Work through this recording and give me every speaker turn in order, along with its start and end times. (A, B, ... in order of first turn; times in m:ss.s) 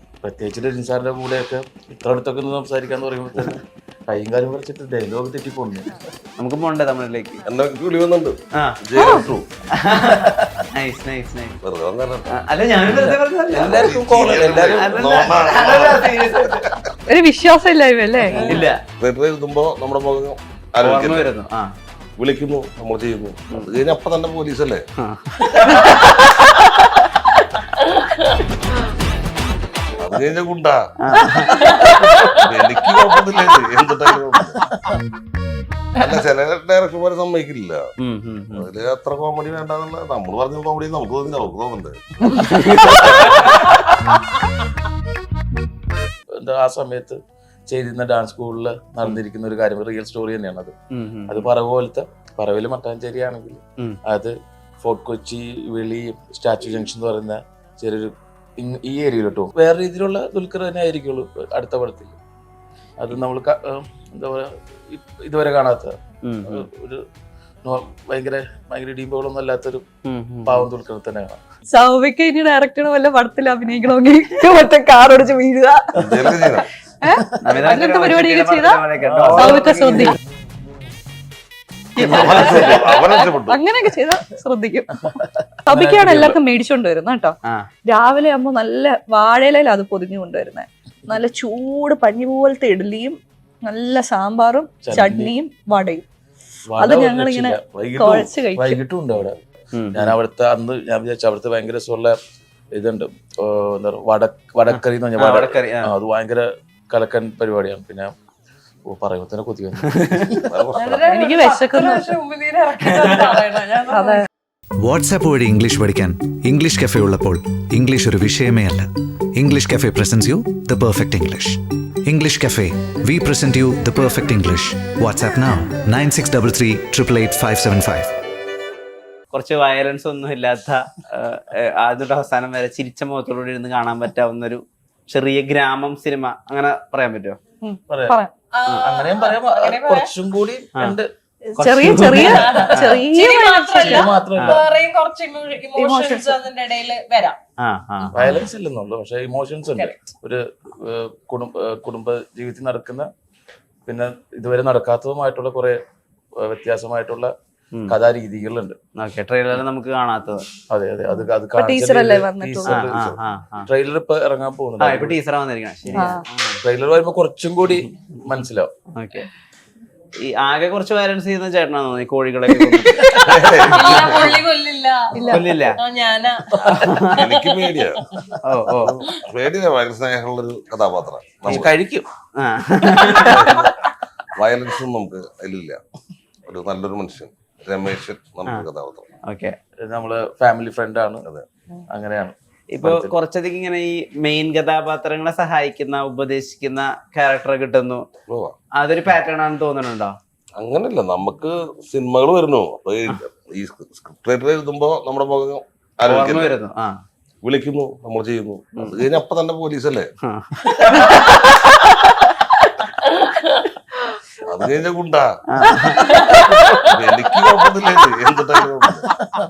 0:00.2-0:06.0 A
0:06.4-0:07.4 B
0:07.4-0:09.5 C
0:09.0-0:09.4 D
0:09.8-0:11.6 B
0:10.0-0:10.6 A
0:11.6-0:12.4 C
0:12.3-0:14.0 B
0:12.9-0:15.0 A
0:13.6-0:16.7 C
0:14.6-0:16.8 B
0:17.1-0:18.6 D
0:18.3-0:21.3 C
0:18.4-0:18.8 B
0:20.8-0:21.7 B
0:22.2-0:24.9 C
0:25.0-0:26.9 B
0:25.8-0:26.1 D
0:27.8-0:28.4 E
0:30.0-0:31.2 C
0:31.0-0:32.0 B
0:31.5-0:32.5 E
0:32.3-0:34.6 C
0:36.0-0:37.9 C
0:38.0-0:38.7 B
0:38.6-0:43.7 C
0:42.4-0:43.4 B
0:46.3-0:50.8 A
0:50.9-0:51.5 B
0:51.3-1:02.2 A
1:03.0-1:07.0 A
1:06.2-1:06.6 B
1:07.6-1:09.8 A
1:10.0-1:10.7 B
1:10.4-1:11.4 A
1:11.7-1:16.5 D
1:16.0-1:16.7 C
1:17.0-1:18.8 D
1:17.4-1:20.1 B
1:19.2-1:19.6 C
1:19.4-1:20.2 D
1:22.0-1:23.6 C
1:22.0-1:22.7 B
1:22.0-1:25.0 D
1:25.0-1:26.4 A
1:25.7-1:36.1 D
1:34.8-1:35.3 A
1:36.7-1:39.4 A
1:36.8-1:38.8 D
1:39.8-1:40.2 B
1:39.9-1:42.2 A
1:42.7-1:48.1 A
1:44.7-1:45.9 B
1:48.9-1:50.5 A
1:49.9-1:50.2 B
1:50.5-1:51.1 C
1:50.7-1:54.3 E
1:51.1-1:52.1 D
1:52.9-1:53.4 B
1:53.9-1:54.2 D
1:54.8-2:08.1 F
2:09.3-2:17.4 B
2:17.6-2:18.3 D
2:17.9-2:18.2 A
2:18.5-2:20.1 E
2:18.7-2:21.1 A
2:21.5-2:24.1 D
2:21.6-2:23.0 B
2:22.2-2:27.4 E
2:23.8-2:24.6 A
2:25.8-2:26.3 D
2:27.6-2:28.3 B
2:28.1-2:33.1 A
2:29.8-2:30.0 E
2:33.9-2:35.8 A
2:36.4-2:37.3 A
2:37.9-2:38.8 A
2:39.0-2:40.5 B
2:40.7-2:43.0 A
2:41.1-2:42.8 D
2:42.7-2:43.7 B
2:43.7-2:45.2 A
2:44.8-2:46.6 B
2:46.0-2:46.2 D
2:46.6-2:48.7 A
2:49.0-2:49.3 B
2:50.2-2:54.4 B
2:52.8-2:58.4 E
2:53.2-2:54.4 C
2:55.1-2:55.5 D
2:55.3-2:55.8 B
2:56.6-2:57.2 B
2:57.1-2:58.1 C
2:58.4-2:59.0 B
2:58.7-3:01.7 C
3:01.5-3:02.1 A
3:02.4-3:03.4 B
3:03.0-3:03.7 C
3:04.3-3:05.8 C
3:06.5-3:09.1 C
3:09.3-3:09.6 B
3:09.8-3:11.3 A
3:11.9-3:13.1 A
3:12.7-3:18.1 B
3:18.3-3:18.6 C
3:18.8-3:20.2 B
3:20.6-3:26.6 C
3:26.1-3:27.0 B
3:27.4-3:30.1 C
3:28.8-3:29.1 B
3:30.2-3:31.4 B
3:33.2-3:33.7 E
3:34.4-3:35.7 C
3:35.5-3:36.3 B
3:35.8-3:36.5 D
3:36.0-3:37.0 E
3:36.9-3:39.1 C